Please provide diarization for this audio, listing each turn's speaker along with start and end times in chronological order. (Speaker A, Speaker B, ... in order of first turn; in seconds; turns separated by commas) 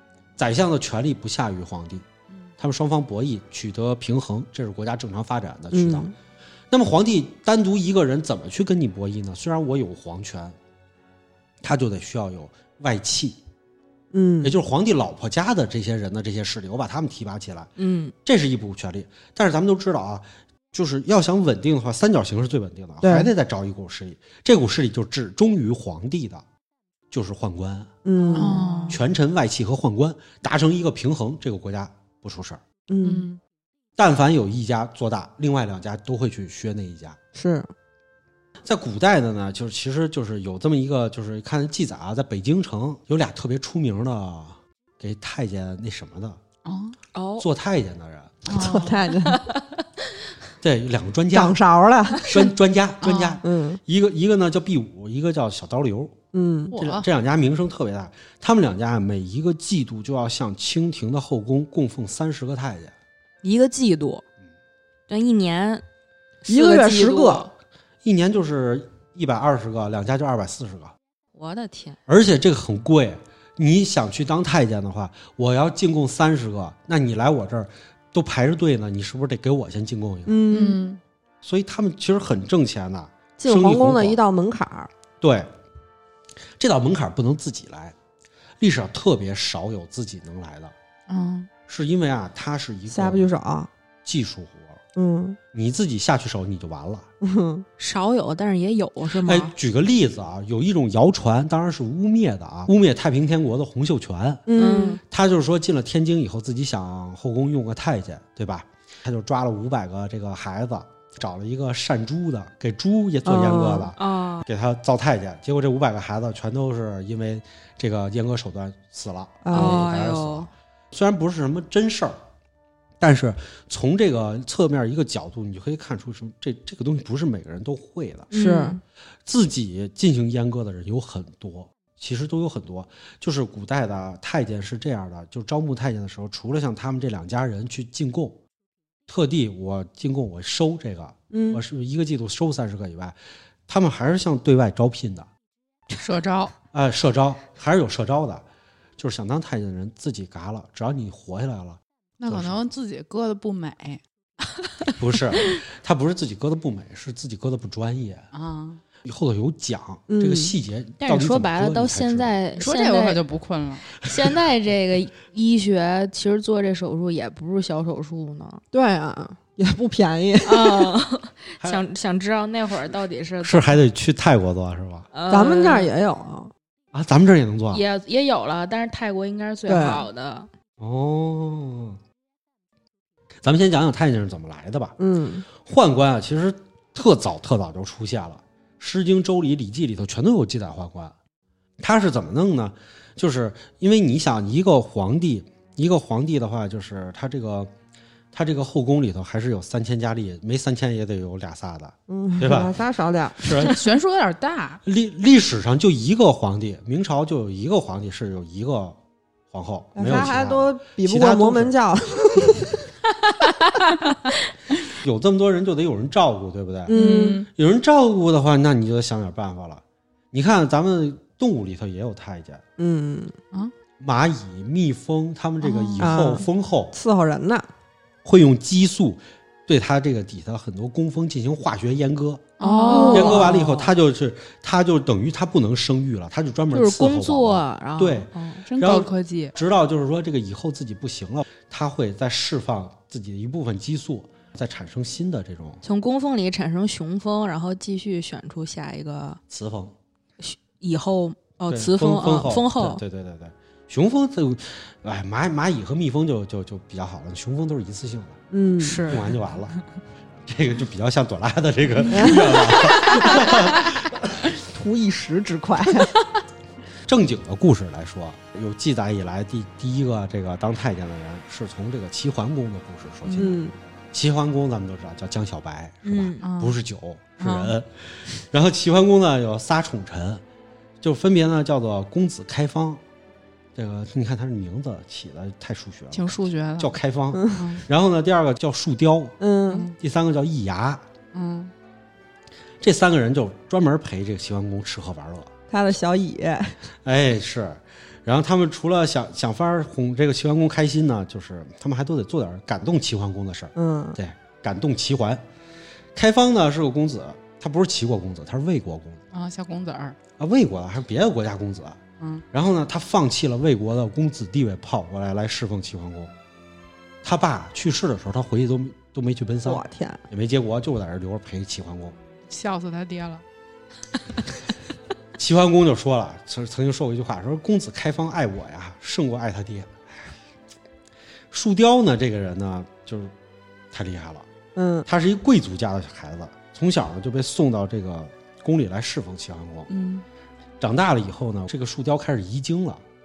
Speaker A: 0.4-2.0, Speaker A: 2.6-6.1, Speaker B: 5.7-6.1, Speaker A: 6.7-10.6, Speaker A: 11.6-13.4, Speaker B: 14.1-14.5, Speaker A: 14.4-17.7, Speaker C: 17.8-18.1, Speaker A: 18.2-26.4, Speaker B: 23.0-23.3, Speaker A: 27.1-27.9, Speaker B: 28.0-28.9, Speaker D: 28.3-29.0, Speaker A: 28.9-32.6, Speaker B: 32.9-33.2, Speaker D: 33.0-33.4, Speaker A: 34.0-37.2, Speaker B: 37.4-37.7, Speaker A: 38.6-46.4, Speaker D: 46.6-47.0, Speaker C: 47.1-47.5, Speaker A: 47.4-48.6, Speaker D: 48.5-49.1, Speaker B: 48.5-49.4, Speaker C: 49.2-49.8, Speaker A: 50.6-51.6, Speaker B: 51.3-52.3, Speaker A: 52.2-56.1, Speaker D: 53.0-53.4, Speaker B: 53.4-53.8, Speaker B: 56.3-56.7, Speaker D: 56.7-57.0, Speaker A: 56.8-62.9, Speaker C: 63.4-64.2, Speaker C: 65.1-65.8, Speaker C: 66.5-67.5, Speaker B: 66.5-67.5, Speaker A: 68.0-70.9, Speaker C: 71.3-72.0, Speaker A: 72.1-80.4, Speaker B: 80.2-80.8, Speaker D: 80.5-81.0, Speaker A: 81.4-84.2, Speaker B: 83.4-84.9, Speaker A: 85.2-85.5, Speaker A: 86.6-87.9, Speaker A: 88.6-90.7, Speaker D: 91.1-91.5, Speaker A: 91.7-93.3, Speaker B: 92.9-93.7, Speaker A: 94.0-94.8, Speaker B: 94.9-95.4, Speaker A: 95.5-97.1, Speaker B: 97.2-97.7, Speaker C: 97.8-99.5, Speaker A: 99.2-104.4, Speaker B: 104.5-105.0, Speaker C: 104.5-105.0, Speaker A: 105.0-122.2, Speaker B: 113.2-113.9, Speaker C: 113.9-114.5, Speaker B: 119.4-119.9, Speaker C: 119.5-120.5, Speaker A: 123.0-128.3, Speaker C: 128.3-128.7, Speaker B: 128.3-128.8, Speaker A: 129.2-138.4, Speaker A: 139.1-143.2, Speaker B: 141.3-141.6, Speaker A: 143.7-145.3, Speaker D: 145.9-146.5, Speaker A: 146.7-148.4, Speaker A: 149.0-152.6, Speaker D: 152.2-154.0, Speaker A: 155.0-158.2, Speaker D: 158.3-158.8, Speaker A: 159.0-162.3, Speaker B: 160.1-160.5, Speaker C: 161.0-163.2, Speaker D: 162.6-163.9, Speaker C: 164.0-168.6, Speaker B: 168.7-170.9, Speaker C: 170.4-173.8, Speaker A: 173.4-175.1, Speaker C: 175.1-175.9, Speaker B: 175.3-176.5, Speaker A: 176.9-177.8, Speaker C: 177.7-180.5, Speaker B: 179.7-180.0, Speaker A: 180.8-182.0, Speaker A: 183.4-184.9, Speaker B: 185.0-185.4, Speaker A: 185.6-191.1, Speaker A: 191.8-197.7, Speaker A: 198.3-202.7, Speaker B: 202.1-203.6, Speaker A: 203.4-203.8, Speaker D: 203.5-204.8, Speaker A: 204.8-209.0, Speaker A: 209.5-211.8, Speaker B: 209.9-212.8, Speaker A: 214.9-222.6, Speaker B: 216.9-217.4, Speaker D: 216.9-217.5, Speaker B: 222.8-223.3, Speaker A: 224.0-226.9, Speaker D: 225.6-226.1, Speaker B: 226.0-227.7, Speaker A: 228.2-232.5, Speaker D: 232.6-233.9, Speaker C: 232.6-233.4, Speaker B: 232.6-233.6, Speaker A: 233.1-245.8, Speaker C: 236.7-238.6, Speaker D: 238.7-239.5, Speaker C: 245.8-249.4, Speaker A: 249.5-249.9, Speaker C: 250.4-253.0, Speaker A: 251.7-258.4, Speaker B: 258.5-259.0, Speaker C: 258.8-259.2, Speaker A: 259.1-259.7, Speaker A: 260.4-264.3, Speaker B: 262.1-262.5, Speaker B: 264.6-266.1, Speaker A: 267.1-273.5, Speaker D: 273.2-273.5, Speaker B: 273.4-273.7, Speaker A: 274.1-280.4, Speaker C: 276.0-276.4, Speaker D: 276.4-276.8, Speaker D: 277.4-277.7, Speaker A: 281.0-283.0, Speaker A: 283.7-289.4, Speaker D: 286.1-286.9, Speaker B: 287.3-287.6, Speaker D: 287.5-287.8, Speaker B: 289.4-289.9, Speaker D: 289.7-289.9, Speaker A: 289.9-291.0, Speaker D: 291.3-291.7, Speaker A: 292.8-295.5, Speaker B: 295.7-296.8, Speaker A: 297.0-305.4, Speaker B: 303.7-304.2, Speaker A: 306.1-309.2, Speaker D: 309.3-310.1, Speaker A: 310.4-312.0, Speaker A: 312.5-316.3, Speaker A: 317.2-322.1, Speaker B: 319.6-320.2, Speaker D: 322.5-323.4, Speaker A: 325.4-330.3, Speaker A: 331.5-333.3, Speaker A: 333.9-334.4, Speaker B: 334.8-335.1, Speaker A: 335.1-339.9, Speaker D: 339.9-340.2, Speaker A: 340.8-343.0